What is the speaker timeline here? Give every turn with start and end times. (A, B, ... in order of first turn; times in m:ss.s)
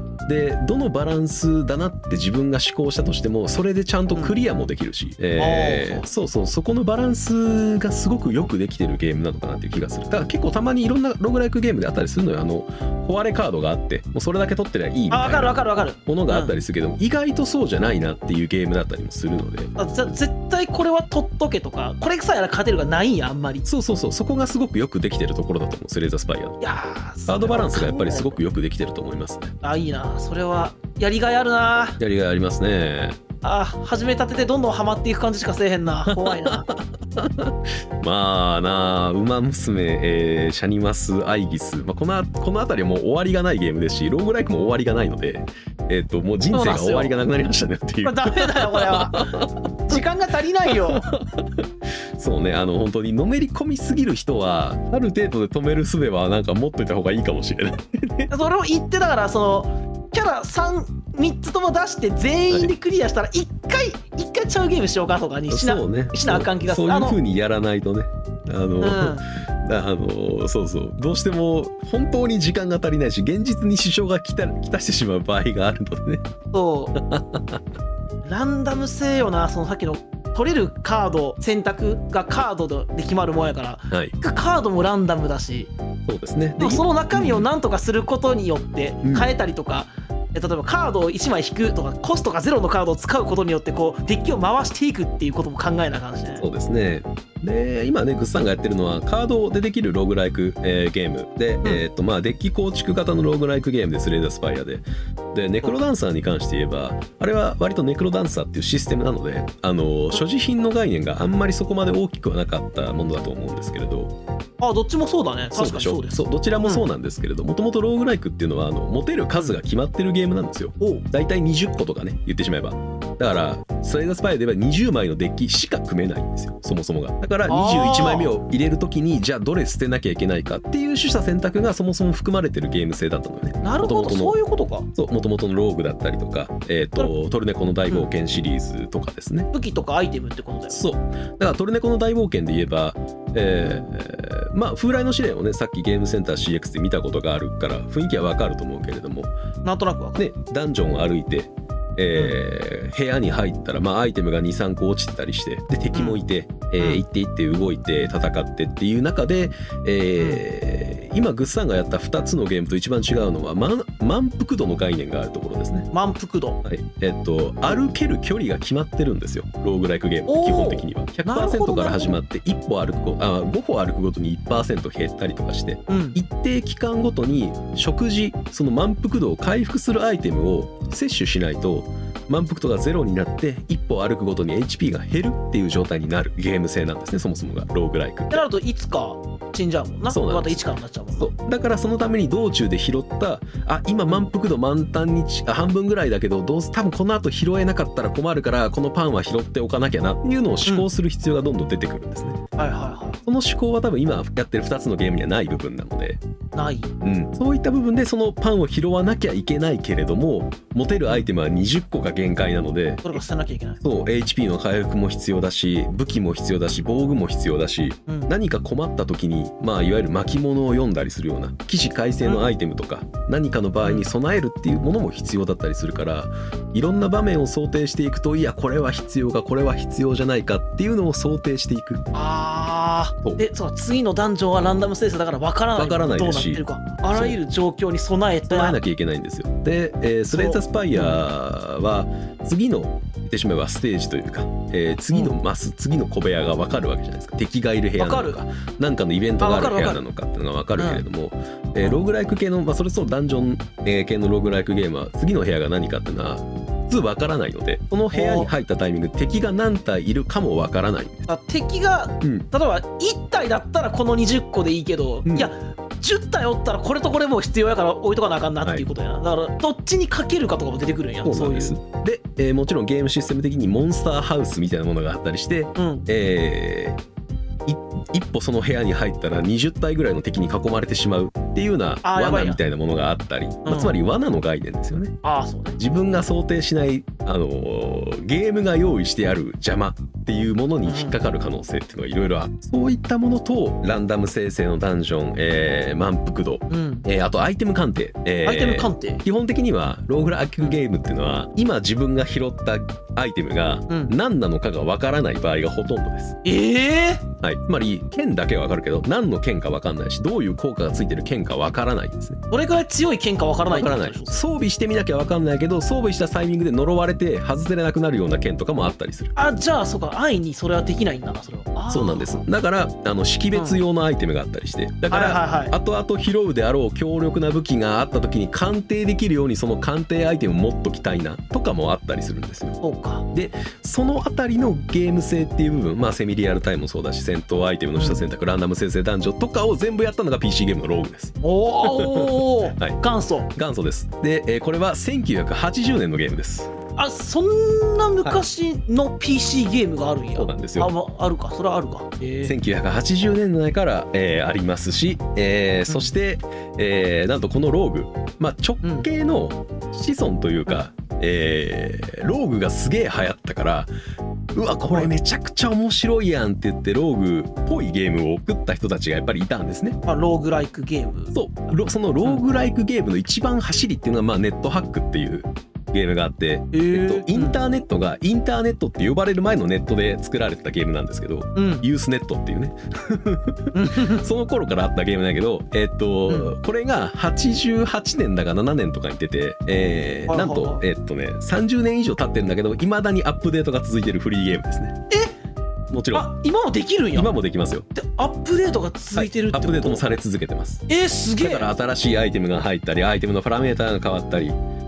0:00.2-0:19.7 A
0:05.4-0:06.1 B
0:15.1-0:16.6 B
0:19.8-0:23.6 B
0:23.6-0:26.6 A
0:26.6-0:28.4 B
0:27.3-0:29.5 A
0:29.6-0:32.0 B
0:32.0-0:33.2 A
0:33.4-0:36.7 B
0:36.1-0:50.0 A
0:46.5-0:47.1 B
0:48.0-0:51.1 B
0:50.7-0:58.3 A
0:58.3-1:07.2 B
1:05.5-1:16.2 A
1:08.8-1:09.2 B
1:16.5-1:16.9 B
1:16.9-1:17.6 A
1:18.2-1:25.7 B
1:26.0-1:27.5 A
1:26.6-1:36.5 B
1:29.0-1:29.3 A
1:36.4-1:54.1 A
1:54.6-1:56.8 B
1:55.5-2:14.4 A
2:00.8-2:01.0 B
2:07.5-2:08.3 B
2:13.6-2:14.9 B
2:14.9-2:19.5 A
2:19.5-2:20.8 B
2:20.7-2:29.3 A
2:23.6-2:23.9 B
2:29.6-2:30.2 B
2:30.2-2:45.9 A
2:35.9-2:36.2 B
2:40.2-2:40.4 B
2:45.9-2:46.6 B
2:46.6-3:08.5 A
2:50.3-2:52.2 B
2:55.9-2:56.2 B
3:08.3-3:11.3 B
3:10.1-3:10.6 A
3:11.1-3:22.4 A
3:22.6-3:23.2 B
3:23.2-3:26.2 A
3:26.5-3:26.9 B
3:27.0-3:33.2 A
3:33.0-3:33.8 B
3:33.8-3:52.0 A
3:52.1-3:58.8 B
3:55.8-3:57.4 A
3:58.5-4:21.2 A
4:00.3-4:01.2 B
4:08.0-4:08.4 B
4:09.4-4:10.0 B
4:10.8-4:11.0 B
4:18.1-4:18.5 B
4:21.3-4:31.8 B
4:25.2-4:25.5 A
4:31.2-4:37.0 A
4:35.8-4:36.1 B
4:37.6-4:45.1 A
4:42.0-4:42.6 B
4:43.6-4:43.9 B
4:45.2-4:45.8 B
4:45.8-5:06.4 A
4:50.8-4:51.2 B
4:56.7-4:57.1 B
4:58.4-4:59.2 B
5:03.9-5:04.1 B
5:06.4-5:07.3 B
5:07.4-5:12.4 A
5:12.5-5:14.4 B
5:13.7-5:19.3 A
5:19.4-5:22.4 B
5:21.9-5:32.8 A
5:23.5-5:23.8 B
5:25.1-5:25.7 B
5:32.8-5:33.2 B
5:33.3-5:43.0 A
5:38.0-5:38.2 B
5:41.4-5:43.5 B
5:43.5-5:46.7 A
5:47.0-5:52.5 B
5:50.4-5:50.9 A
5:52.4-6:03.9 A
5:55.9-5:56.1 B
5:58.8-5:59.1 B
6:04.5-6:10.0 A
6:10.0-6:11.3 B
6:11.3-6:35.0 A
6:16.7-6:17.6 B
6:21.6-6:21.8 B
6:23.7-6:24.2 B
6:26.3-6:26.6 B
6:30.3-6:30.8 B
6:35.9-6:36.3 A
6:36.1-6:37.3 B
6:37.1-6:37.8 A
6:37.9-6:40.0 B
6:39.1-6:40.8 A
6:40.9-6:41.7 B
6:41.4-6:44.6 A